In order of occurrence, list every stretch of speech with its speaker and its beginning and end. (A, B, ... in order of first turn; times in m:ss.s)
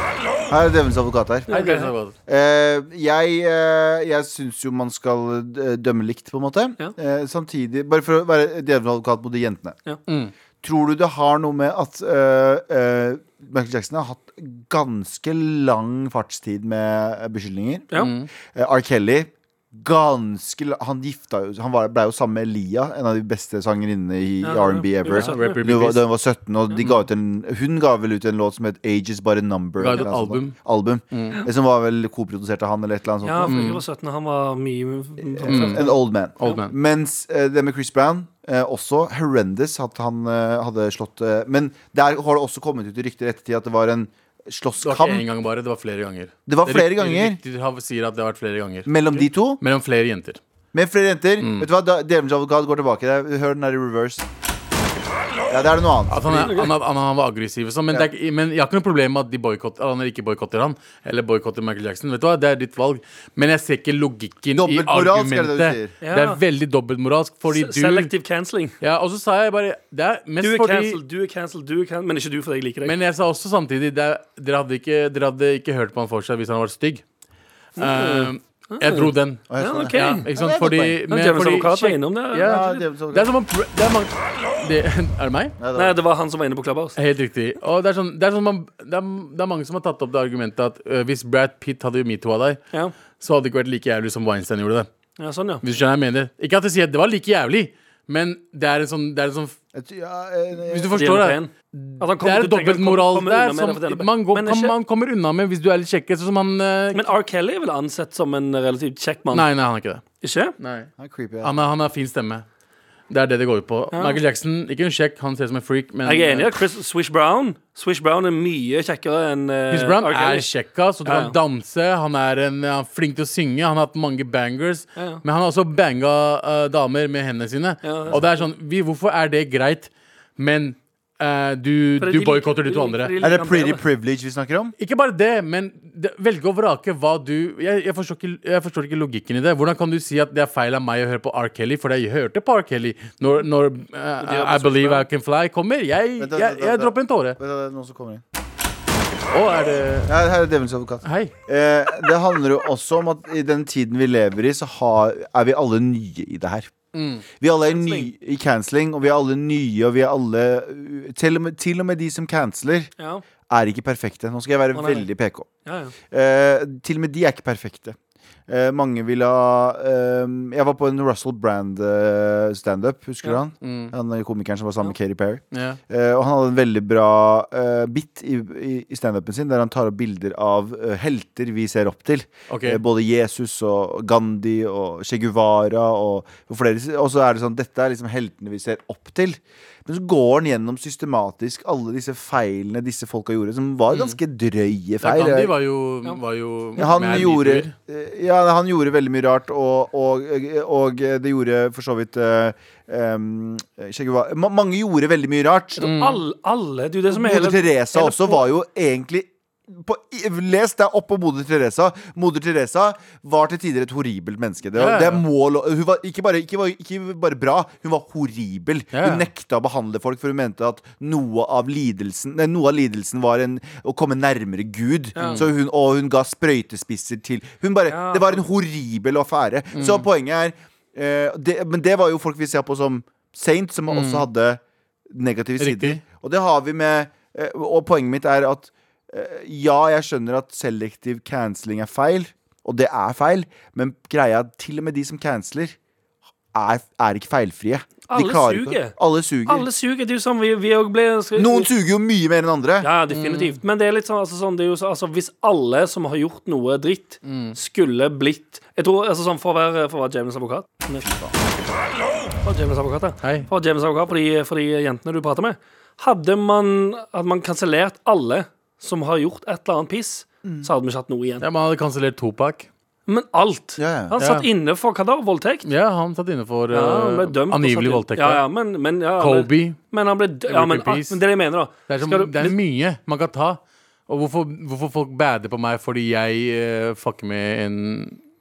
0:00.5-0:01.5 A
0:01.5-0:01.9 B
0:01.5-0:02.1 C
0:02.3-0:09.8 A
0:10.1-0:10.3 C
0:10.6-0:33.6 A
0:18.0-0:18.3 C
0:24.4-0:25.6 B
0:25.1-0:26.0 C
0:29.8-0:30.6 C
0:31.1-0:31.4 C
0:33.2-0:36.6 B
0:33.4-0:33.8 C
0:35.3-0:45.2 A
0:35.5-0:35.8 C
0:36.4-0:36.7 C
0:44.8-0:50.4 C
0:46.5-0:47.4 A
0:48.8-0:49.6 A
0:50.7-0:54.2 A
0:51.4-0:51.7 C
0:55.5-0:56.6 A
0:56.1-1:08.1 C
0:56.3-0:56.7 B
1:04.6-1:05.9 A
1:06.0-1:06.4 B
1:07.5-1:08.8 B
1:08.8-1:11.0 C
1:10.4-1:12.9 B
1:12.8-1:17.0 C
1:17.8-1:20.2 B
1:17.8-1:25.6 C
1:19.5-1:21.0 A
1:21.1-1:22.8 B
1:22.4-1:23.3 A
1:25.6-1:26.0 A
1:25.7-1:27.0 B
1:27.0-1:32.6 C
1:33.2-1:34.9 C
1:35.2-1:35.6 B
1:35.6-1:39.6 C
1:39.7-1:40.9 A
1:40.6-1:47.1 C
1:40.9-1:44.7 B
1:46.9-1:49.5 B
1:49.3-1:50.0 C
1:50.2-1:50.5 B
1:50.6-1:50.9 C
1:51.0-1:51.5 A
1:51.4-1:52.4 C
1:53.1-1:56.5 C
1:53.9-1:54.2 B
1:56.0-2:00.5 B
1:59.7-2:13.1 C
2:01.0-2:01.4 B
2:05.0-2:05.2 B
2:07.8-2:08.2 B
2:12.0-2:13.8 B
2:13.2-2:14.7 A
2:14.8-2:27.4 C
2:24.2-2:25.0 B
2:26.2-2:28.2 A
2:29.3-2:30.1 C
2:30.1-2:36.7 A
2:31.0-2:31.3 C
2:36.9-2:37.2 C
2:37.4-2:42.9 A
2:37.7-2:38.1 B
2:43.0-2:43.2 B
2:43.5-2:45.5 A
2:44.7-2:45.1 B
2:45.6-2:45.9 B
2:46.1-2:48.0 A
2:48.5-3:15.5 A
2:53.6-2:53.9 C
2:55.5-2:55.8 C
3:02.5-3:02.8 C
3:13.9-3:14.2 C
3:15.0-3:17.7 C
3:16.8-3:25.8 A
3:25.8-3:28.4 B
3:25.8-3:26.2 C
3:27.1-4:05.8 A
3:34.8-3:35.2 C
3:38.9-3:39.3 C
3:45.2-3:45.4 B
3:45.2-3:45.5 C
3:47.9-3:48.4 B
3:49.7-3:50.0 C
3:53.9-3:54.3 C
3:55.6-3:56.0 C
4:06.5-4:09.7 A
4:08.1-4:08.9 B
4:09.4-4:11.7 B
4:11.4-4:12.9 A
4:12.8-4:21.0 B
4:13.1-4:13.6 C
4:17.2-4:17.6 C
4:21.0-4:21.4 A
4:22.4-4:31.4 B
4:23.2-4:23.5 C
4:30.4-4:30.7 A
4:31.4-4:32.7 C
4:33.1-4:35.7 B
4:33.8-4:34.2 A
4:34.2-4:34.5 C
4:35.6-4:38.4 C
4:36.7-4:42.6 B
4:39.2-4:39.8 C
4:40.5-4:41.2 C
4:41.9-4:48.2 C